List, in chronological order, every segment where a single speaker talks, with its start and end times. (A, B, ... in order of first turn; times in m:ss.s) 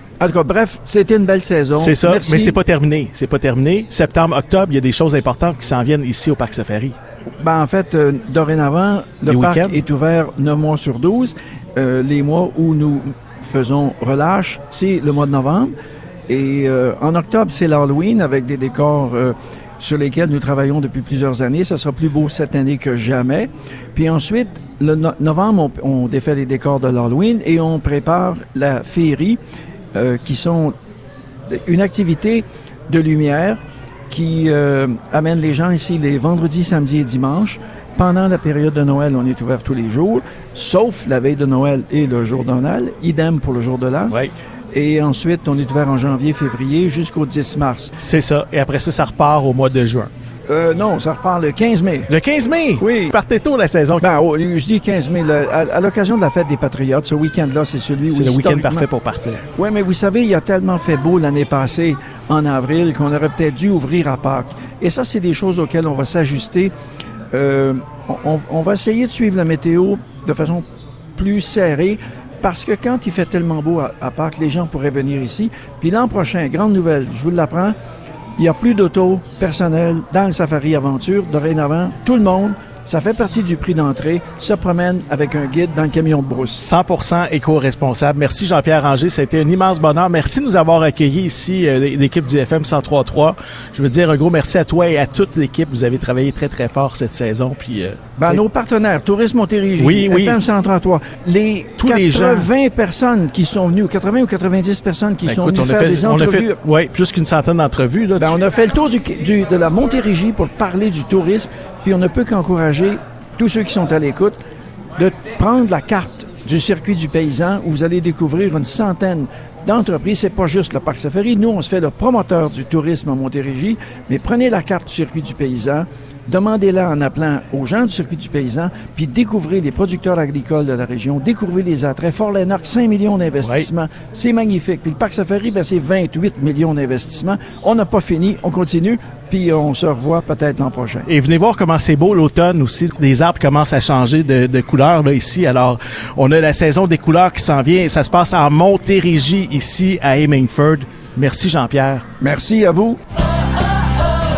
0:00.2-0:02.6 A
0:01.7-0:06.9 B
0:07.4-0:15.7 A
0:09.2-0:09.8 B
0:16.3-0:29.4 A
0:29.9-0:30.7 A
0:31.5-0:44.2 A
0:44.7-0:47.9 A
0:48.0-0:50.1 B
0:50.5-0:52.1 A
0:52.1-0:54.0 B
0:52.8-0:53.2 A
0:54.0-0:58.9 A
0:58.1-0:59.4 B
0:59.5-1:06.7 A
1:07.3-1:10.6 A
1:11.2-1:17.7 A
1:18.4-1:26.6 A
1:26.6-1:38.4 B
1:38.2-1:46.6 A
1:39.8-1:40.4 B
1:41.8-1:42.5 B
1:45.2-1:48.4 B
1:48.2-1:54.4 A
1:55.0-2:21.1 A
2:13.4-2:13.7 B
2:21.1-2:32.0 B
2:32.2-2:33.0 A